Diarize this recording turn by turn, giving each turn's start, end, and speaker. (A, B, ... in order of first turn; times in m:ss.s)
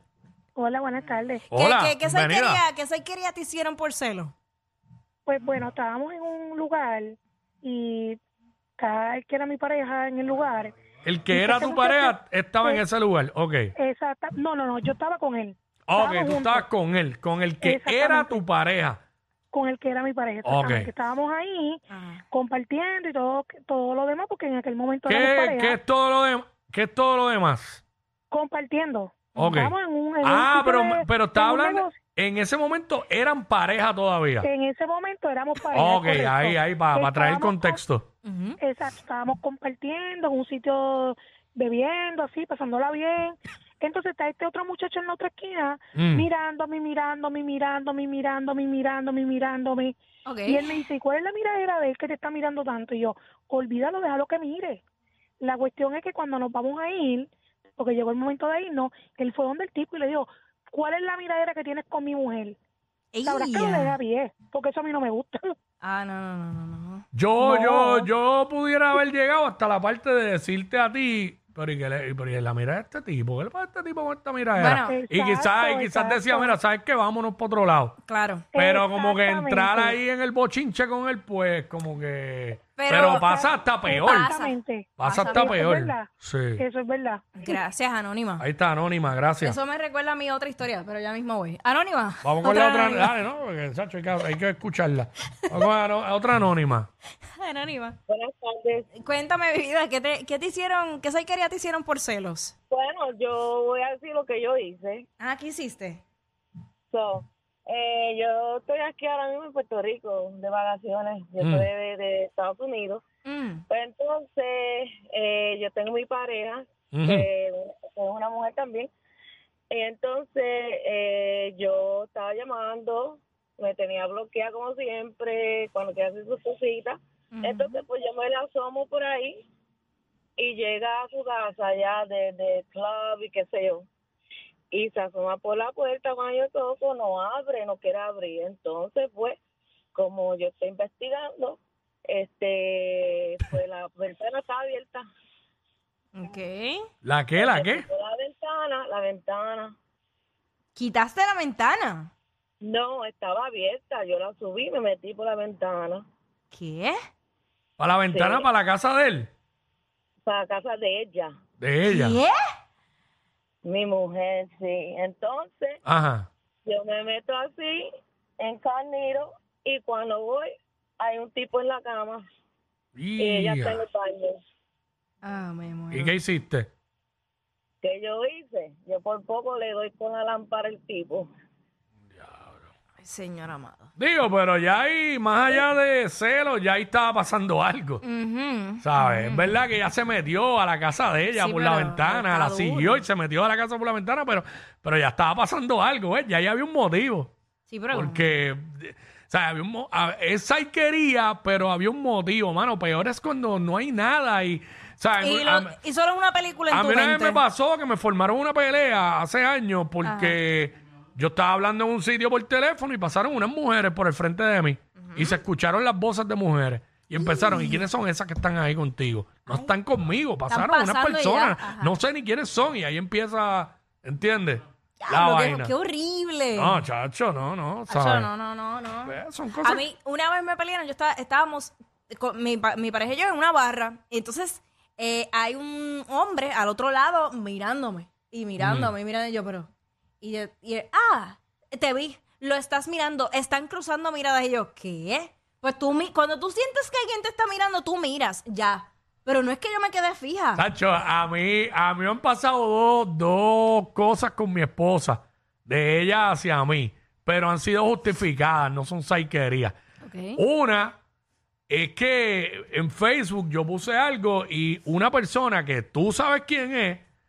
0:00.5-0:01.4 A
0:01.5-0:02.6 B
0:01.5-0:04.3 C
0:05.2-0:08.2 A
0:08.8-0:10.7 A
0:11.0-0:13.7 B
0:11.3-0:12.8 A
0:13.8-0:16.6 A
0:15.9-0:19.0 B
0:17.7-0:18.4 A
0:19.5-0:25.7 A
0:20.4-0:20.9 B
0:21.9-0:22.2 C
0:25.1-0:27.8 B
0:28.3-0:31.9 A
0:29.4-0:34.5 B
0:34.4-0:37.8 A
0:35.7-0:38.1 B
0:38.2-0:38.6 C
0:38.6-0:50.0 A
0:46.0-0:46.3 B
0:50.2-0:50.7 C
0:50.5-0:54.8 A
0:55.4-1:02.6 A
1:03.1-1:04.0 C
1:03.2-1:05.4 A
1:05.8-1:07.0 C
1:07.1-1:18.0 B
1:07.5-1:08.0 A
1:14.6-1:15.0 C
1:14.8-1:16.6 A
1:18.0-1:18.5 C
1:18.5-1:20.0 A
1:18.6-1:24.3 B
1:22.8-1:23.4 C
1:23.3-1:26.1 A
1:23.9-1:25.6 C
1:25.0-1:26.6 B
1:26.6-1:27.2 A
1:27.4-1:28.4 C
1:28.4-1:29.6 B
1:29.4-1:33.1 C
1:32.2-1:36.9 B
1:37.4-1:38.0 C
1:38.1-1:38.8 D
1:39.0-1:42.5 C
1:42.7-1:45.0 D
1:45.2-1:46.0 C
1:46.9-1:53.0 D
1:51.4-1:51.7 B
1:53.2-1:53.6 C
1:53.7-1:58.9 D
1:56.9-1:57.3 B
1:59.7-2:09.4 D
2:07.3-2:07.8 C
2:10.4-2:13.8 D
2:14.7-2:19.4 D
2:19.9-2:25.0 D
2:26.1-2:26.9 C
2:27.0-2:27.9 B
2:27.4-2:29.7 D
2:30.7-2:32.1 C
2:32.6-2:36.0 D
2:36.5-2:37.0 C
2:37.8-2:39.3 B
2:38.1-2:38.5 D
2:40.2-2:41.3 D
2:41.6-2:42.2 B
2:41.9-2:42.4 C
2:43.6-2:45.8 D
2:45.8-2:46.3 B
2:46.6-2:47.8 D
2:48.4-2:52.2 D
2:53.0-2:53.8 B
2:53.2-2:54.4 D
2:55.2-2:56.1 C
2:55.9-2:56.7 B
2:57.8-3:01.3 D
3:03.0-3:03.9 C
3:04.0-3:08.0 B
3:08.0-3:09.5 C
3:08.8-3:17.3 B
3:11.3-3:13.0 C
3:17.7-3:18.4 C
3:17.9-3:25.8 B
3:25.2-3:27.4 C
3:26.7-3:45.7 B
3:30.0-3:30.4 C
3:35.0-3:35.4 C
3:37.1-3:37.8 C
3:39.4-3:39.7 C
3:40.5-3:42.0 C
3:45.0-3:46.8 C
3:46.5-3:48.3 B
3:47.9-3:59.7 C
3:49.0-3:49.8 B
3:58.6-3:58.9 B
4:00.2-4:10.6 C
4:10.6-4:19.8 B
4:20.0-4:20.4 C
4:20.4-4:21.0 B
4:21.7-4:27.0 B